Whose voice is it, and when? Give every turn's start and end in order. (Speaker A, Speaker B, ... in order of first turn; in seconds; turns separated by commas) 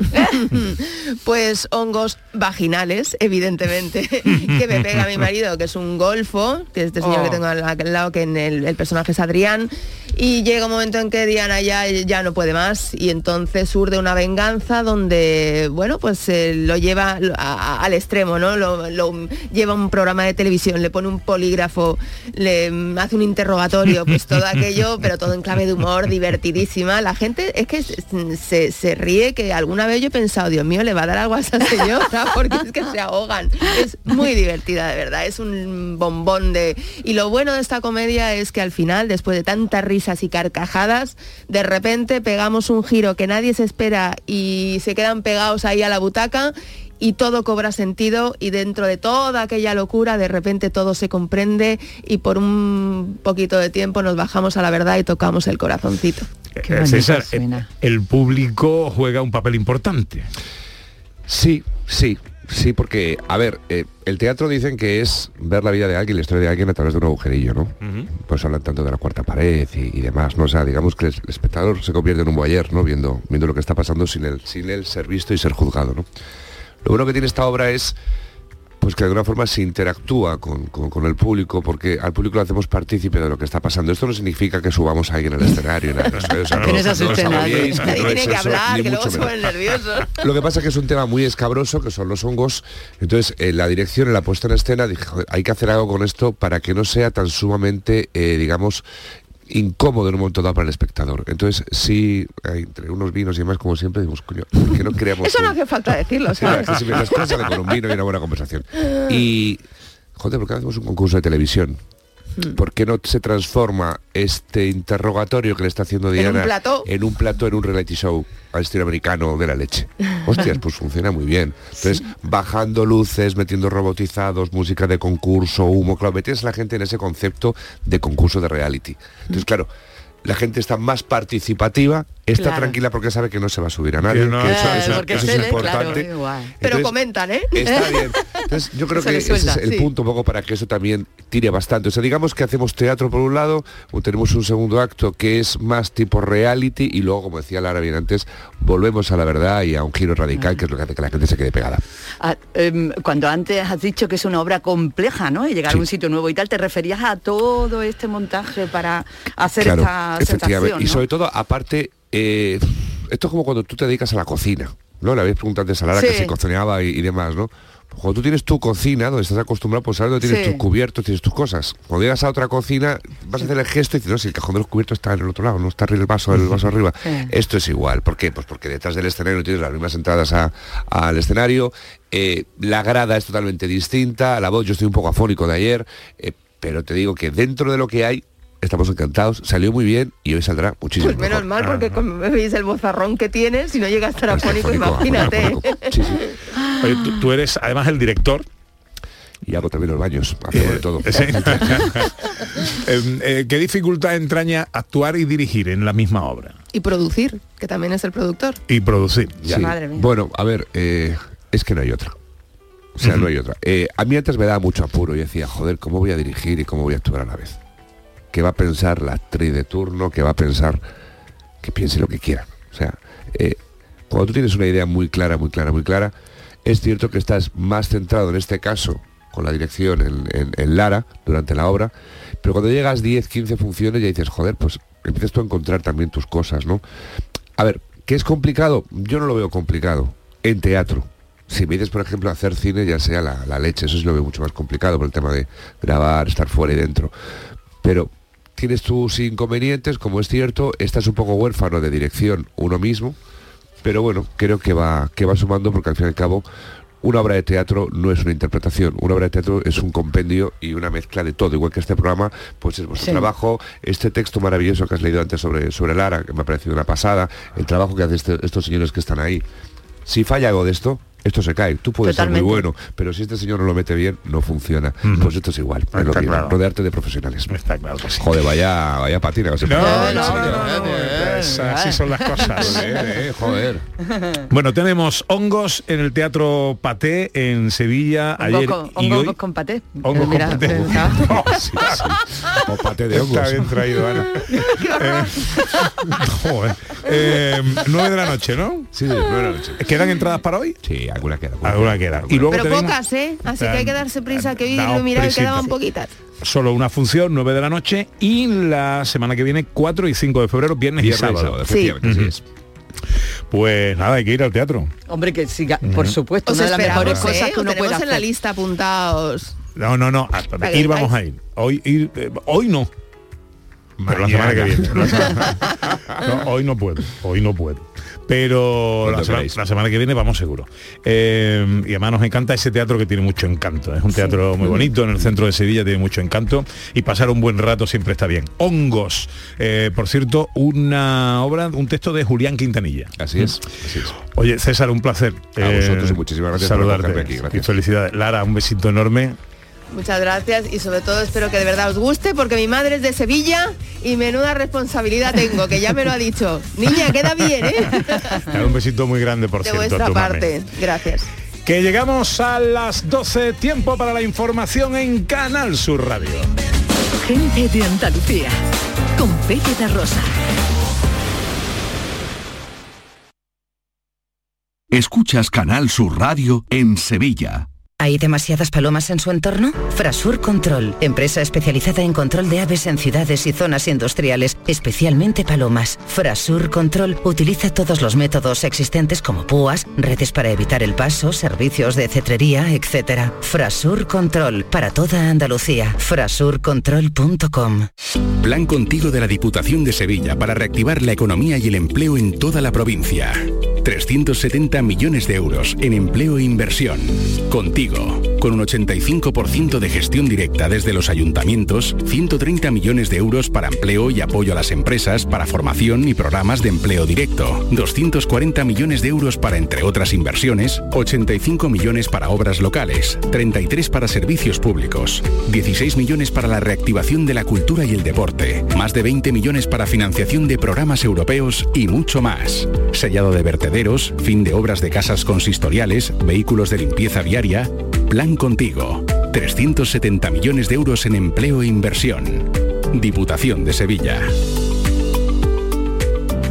Speaker A: 0.2-56.3, Speaker B: 56.6-57.6, Speaker C: 56.6-60.3, Speaker D: 61.3-76.1, Speaker C: 67.8-68.1, Speaker D: 76.8-78.0, Speaker D: 78.8-89.4, Speaker C: 86.1-88.1, Speaker B: 86.6-88.1, Speaker A: 87.8-90.1, Speaker D: 90.2-98.8, Speaker D: 99.5-105.6, Speaker A: 105.2-107.3, Speaker D: 106.4-109.6, Speaker D: 110.2-111.8, Speaker D: 112.5-129.7, Speaker A: 116.1-116.9, Speaker D: 130.2-136.9, Speaker B: 132.3-132.8, Speaker C: 134.1-135.9, Speaker B: 134.4-136.6, Speaker A: 136.6-137.7, Speaker D: 137.5-151.8, Speaker B: 137.7-139.9, Speaker B: 152.2-161.0, Speaker D: 159.6-191.5, Speaker B: 165.9-166.3, Speaker B: 170.2-170.6, Speaker B: 177.0-177.3, Speaker A: 191.0-196.3, Speaker D: 194.3-196.2, Speaker C: 196.8-198.4, Speaker D: 199.4-202.1, Speaker C: 200.5-206.6, Speaker A: 206.7-208.6, Speaker C: 208.7-209.4, Speaker D: 209.4-212.1, Speaker B: 209.4-210.1, Speaker D: 212.9-217.6, Speaker C: 213.0-213.3, Speaker D: 218.3-220.8, Speaker D: 221.6-223.6, Speaker D: 224.1-226.1, Speaker D: 226.6-231.9, Speaker D: 232.4-236.8, Speaker D: 237.6-247.1, Speaker D: 247.8-253.2, Speaker D: 253.8-256.4, Speaker D: 257.0-269.4, Speaker B: 263.0-263.3, Speaker D: 270.1-277.6, Speaker B: 272.0-272.7, Speaker C: 275.0-275.3, Speaker C: 275.9-276.6, Speaker C: 277.5-278.4, Speaker D: 278.2-280.5, Speaker C: 279.6-283.3, Speaker B: 279.7-283.1, Speaker D: 282.6-283.8, Speaker B: 284.0-284.5, Speaker C: 284.5-289.4, Speaker B: 288.4-291.6, Speaker C: 290.0-292.0, Speaker D: 290.9-293.7, Speaker C: 293.1-298.9, Speaker A: 294.7-295.5, Speaker D: 298.9-299.8, Speaker C: 299.8-300.8, Speaker D: 300.8-302.5, Speaker C: 301.6-302.9, Speaker A: 302.5-306.1, Speaker C: 303.5-305.7, Speaker C: 306.4-312.3, Speaker D: 311.0-312.4, Speaker A: 311.6-312.0, Speaker C: 313.5-314.9, Speaker B: 315.1-318.2, Speaker C: 315.8-316.2, Speaker A: 316.4-319.5, Speaker C: 316.8-317.3, Speaker C: 319.8-322.9, Speaker A: 320.6-321.1, Speaker D: 324.0-325.2, Speaker C: 324.1-343.6, Speaker D: 329.0-329.6, Speaker B: 334.1-334.7, Speaker D: 343.2-344.1, Speaker C: 344.2-349.4, Speaker D: 345.6-347.7, Speaker A: 349.9-358.4, Speaker C: 358.5-360.5, Speaker A: 359.6-361.3, Speaker C: 361.6-366.5, Speaker E: 367.2-368.6, Speaker E: 369.1-370.3, Speaker F: 374.9-377.7, Speaker G: 378.0-397.9, Speaker H: 398.4-444.3